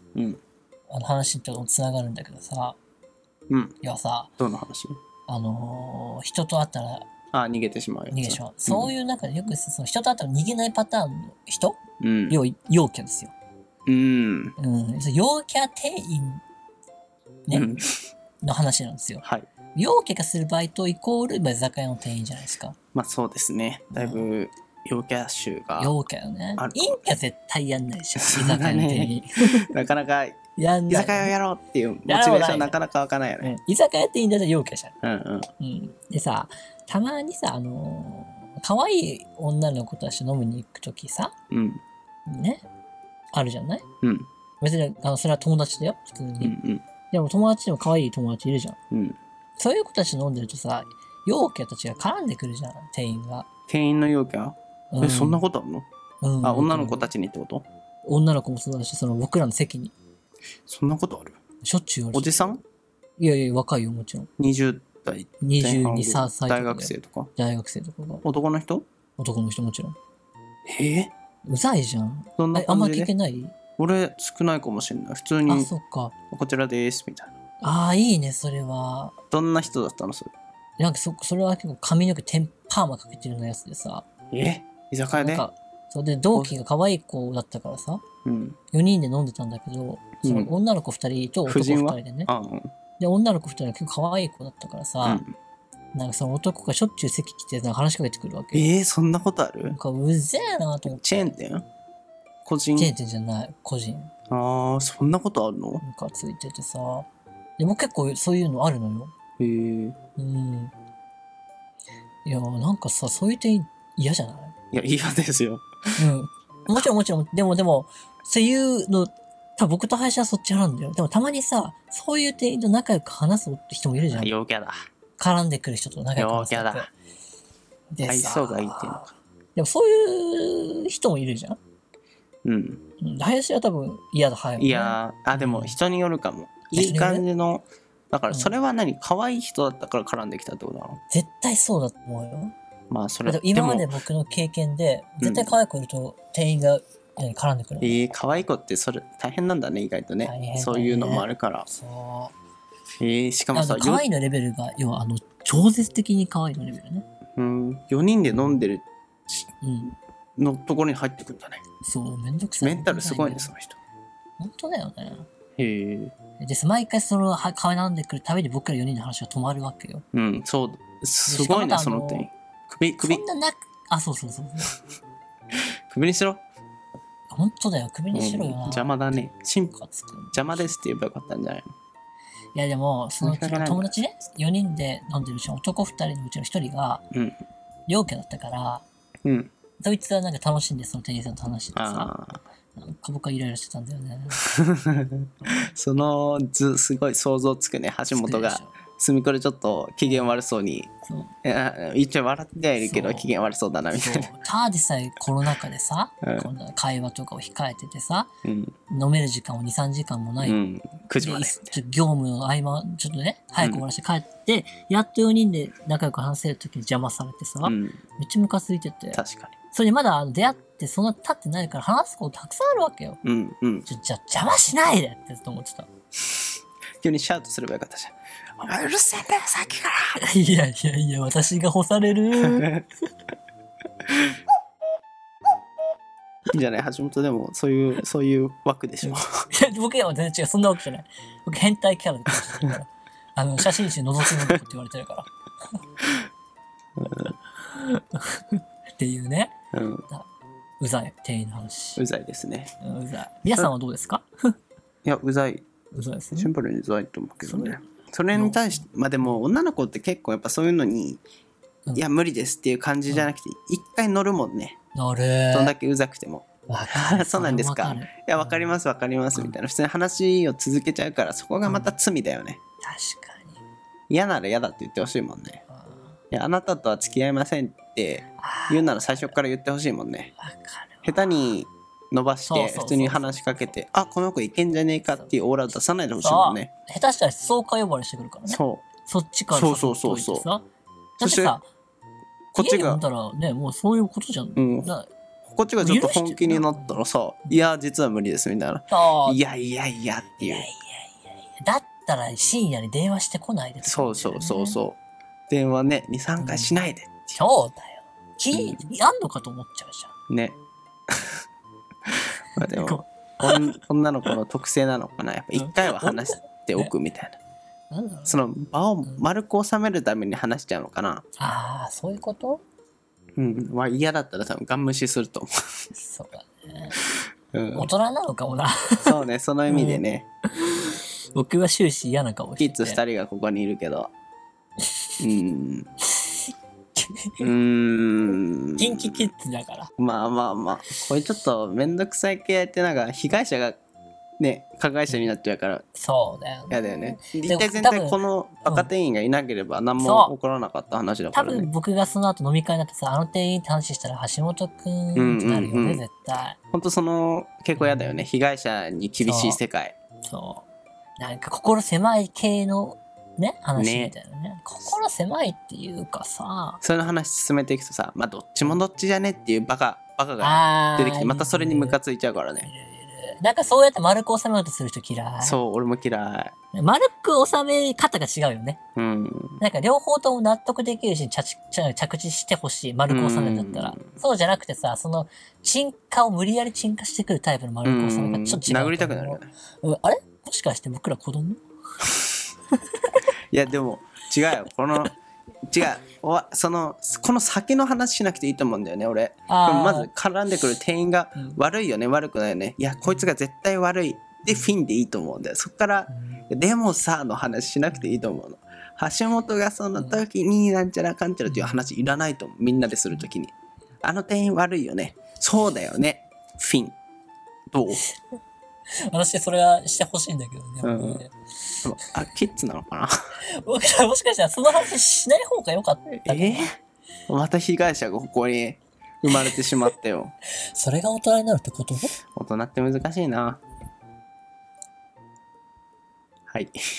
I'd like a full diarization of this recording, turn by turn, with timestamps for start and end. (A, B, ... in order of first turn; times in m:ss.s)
0:00.2-0:00.4 A
0:00.9-0:02.8 B
0:03.8-0:04.3 B
0:04.4-0:05.0 A
0:05.3-0:07.1 B
0:07.3-0:08.9 A
0:08.1-0:11.8 B
0:12.0-0:12.4 A
0:12.3-0:13.3 B
0:13.9-0:14.6 A
0:14.6-0:16.4 B
0:17.5-0:18.0 A
0:18.4-0:19.2 B
0:19.8-0:22.8 B
0:22.9-0:25.9 A
0:23.9-0:24.3 B
0:25.8-0:29.6 B
0:26.6-0:27.2 A
0:28.2-0:33.5 A
0:30.6-0:31.3 B
0:32.1-0:32.8 B
0:33.4-0:35.0 B
0:35.0-0:35.5 A
0:35.6-0:41.3 B
0:41.5-0:41.8 A
0:42.3-0:42.6 B
0:43.3-0:43.8 B
0:44.0-0:44.3 A
0:44.6-0:46.6 B
0:46.4-0:46.8 A
0:47.1-0:48.8 B
0:48.9-0:49.2 A
0:49.6-0:53.5 B
0:53.7-0:55.9 A
0:54.9-0:55.4 B
0:56.2-0:57.1 B
0:56.4-0:57.7 A
0:58.0-0:59.9 B
1:00.7-1:01.4 A
1:01.6-1:02.5 B
1:02.1-1:02.6 A
1:03.2-1:04.3 B
1:04.4-1:07.3 A
1:05.4-1:08.2 B
1:08.2-1:08.9 A
1:09.2-1:10.0 B
1:10.7-1:11.1 A
1:11.5-1:13.6 B
1:12.4-1:13.1 A
1:13.8-1:15.7 A
1:15.5-1:16.1 B
1:16.3-1:17.3 A
1:17.6-1:19.2 B
1:19.3-1:20.3 A
1:20.8-1:24.0 B
1:24.3-1:25.5 A
1:25.1-1:28.0 B
1:28.2-1:28.6 A
1:28.7-1:32.3 B
1:30.2-1:30.5 A
1:31.5-1:32.7 A
1:33.0-1:35.2 B
1:35.0-1:35.3 A
1:35.9-1:38.7 B
1:38.5-1:39.8 A
1:39.7-1:41.4 B
1:40.9-1:41.7 A
1:42.4-1:42.9 A
1:42.8-1:44.1 B
1:44.3-1:45.8 A
1:45.8-1:49.1 B
1:49.4-1:50.0 A
1:50.2-1:50.7 B
1:52.2-1:54.5 B
1:54.7-1:55.6 A
1:56.0-2:04.3 B
2:04.1-2:04.9 A
2:05.2-2:06.9 B
2:06.2-2:06.9 A
2:07.9-2:11.6 B
2:08.0-2:09.1 A
2:12.4-2:12.8 A
2:13.0-2:15.8 B
2:14.6-2:21.0 A
2:16.8-2:17.3 B
2:21.1-2:22.5 B
2:22.9-2:23.9 A
2:23.3-2:28.0 B
2:25.2-2:25.6 A
2:27.8-2:31.7 A
2:30.2-2:32.4 B
2:33.0-2:34.1 A
2:33.5-2:37.1 B
2:37.4-2:39.5 A
2:38.3-2:38.6 B
2:39.6-2:40.0 B
2:40.4-2:41.6 A
2:41.8-2:43.5 B
2:42.6-2:43.8 A
2:44.4-2:45.3 B
2:45.6-2:46.1 A
2:46.4-2:50.0 B
2:50.1-2:53.2 A
2:51.3-2:52.3 B
2:53.0-2:54.8 B
2:55.9-2:56.4 A
2:57.3-3:00.7 B
2:58.1-2:59.8 A
3:00.3-3:01.7 A
3:02.5-3:07.0 B
3:03.2-3:03.9 A
3:07.1-3:07.4 A
3:07.9-3:08.8 B
3:09.2-3:09.5 A
3:09.8-3:12.1 B
3:11.8-3:12.4 A
3:12.8-3:14.4 B
3:14.4-3:20.9 A
3:18.1-3:18.8 B
3:21.0-3:21.3 B
3:21.4-3:24.3 A
3:22.8-3:23.3 B
3:23.9-3:28.3 B
3:26.2-3:26.5 A
3:28.4-3:28.8 A
3:28.9-3:30.6 B
3:30.4-3:31.8 A
3:31.2-3:43.2 B
3:37.6-3:38.0 A
3:39.1-3:39.5 A
3:43.2-3:43.9 A
3:43.9-3:45.9 B
3:47.0-3:50.2 A
3:50.2-3:52.7 B
3:52.4-3:52.9 A
3:56.5-3:59.5 A
3:59.1-4:05.8 B
4:07.0-4:07.3 A
4:07.6-4:09.5 B
4:09.7-4:10.1 A
4:10.8-4:12.0 B
4:12.0-4:12.7 A
4:12.8-4:14.5 B
4:15.0-4:15.6 A
4:15.9-4:16.5 B
4:16.3-4:21.2 A
4:17.4-4:19.4 B
4:22.0-4:24.8 A
4:25.0-4:25.7 B
4:25.5-4:32.6 A
4:26.7-4:28.7 B
4:31.6-4:32.0 B
4:32.8-4:33.6 B
4:34.1-4:35.6 A
4:35.7-4:36.2 B
4:36.3-4:40.3 A
4:38.4-4:39.4 B
4:40.4-4:41.5 B
4:41.0-4:46.7 A
4:42.5-4:43.8 B
4:46.2-4:50.7 B
4:48.5-4:48.8 A
4:49.5-4:50.5 A
4:51.2-4:51.6 A
4:51.2-4:51.7 B
4:52.5-4:53.0 A
4:52.6-4:55.1 B
4:54.6-4:54.9 A
4:55.5-5:00.7 A
4:55.8-4:57.6 B
4:58.9-4:59.4 B
5:00.4-5:04.8 B
5:03.8-5:05.0 A
5:05.5-5:07.3 A
5:06.4-5:06.8 B
5:07.3-5:10.1 B
5:08.5-5:08.8 A
5:10.3-5:10.6 A
5:11.1-5:11.4 A
5:12.1-5:17.4 A
5:12.6-5:14.4 B
5:15.6-5:16.9 B
5:17.9-5:18.4 B
5:18.3-5:21.2 A
5:21.4-5:22.6 B
5:23.4-5:25.5 A
5:25.9-5:27.0 B
5:27.5-5:27.9 A
5:27.8-5:30.0 B
5:29.0-5:30.3 A
5:30.6-5:33.0 B
5:32.6-5:34.1 A
5:35.2-5:35.9 A
5:37.0-5:37.5 B
5:37.4-5:39.2 A
5:38.8-5:39.9 B
5:40.0-5:43.8 A
5:44.4-5:45.8 A
5:46.0-5:48.9 B
5:46.7-5:51.7 A
5:50.0-5:50.3 B
5:51.3-5:56.6 B
5:55.2-5:56.0 A
5:56.7-6:00.0 A
5:57.8-5:58.2 B
5:59.2-5:59.6 B
6:00.2-6:00.7 B
6:01.2-6:06.8 B
6:03.8-6:04.1 A
6:06.8-6:12.7 A
6:10.4-6:12.0 B
6:12.6-6:15.6 B
6:15.4-6:16.5 A
6:16.7-6:18.8 B
6:19.0-6:19.6 A
6:19.6-6:31.6 B
6:23.1-6:24.0 A
6:27.8-6:29.5 A
6:33.5-6:35.1 A
6:35.7-6:57.0 A
6:39.5-6:40.1 B
6:46.1-6:46.4 B
6:50.0-6:50.2 B
6:51.5-6:51.8 B
6:57.7-6:58.0 A
6:59.1-7:02.1 B
7:00.8-7:01.2 A
7:01.8-7:03.1 A
7:03.6-7:06.7 B
7:06.2-7:06.8 A
7:07.3-7:10.3 A
7:10.7-7:12.1 B
7:12.3-7:13.6 A
7:16.5-7:16.8 A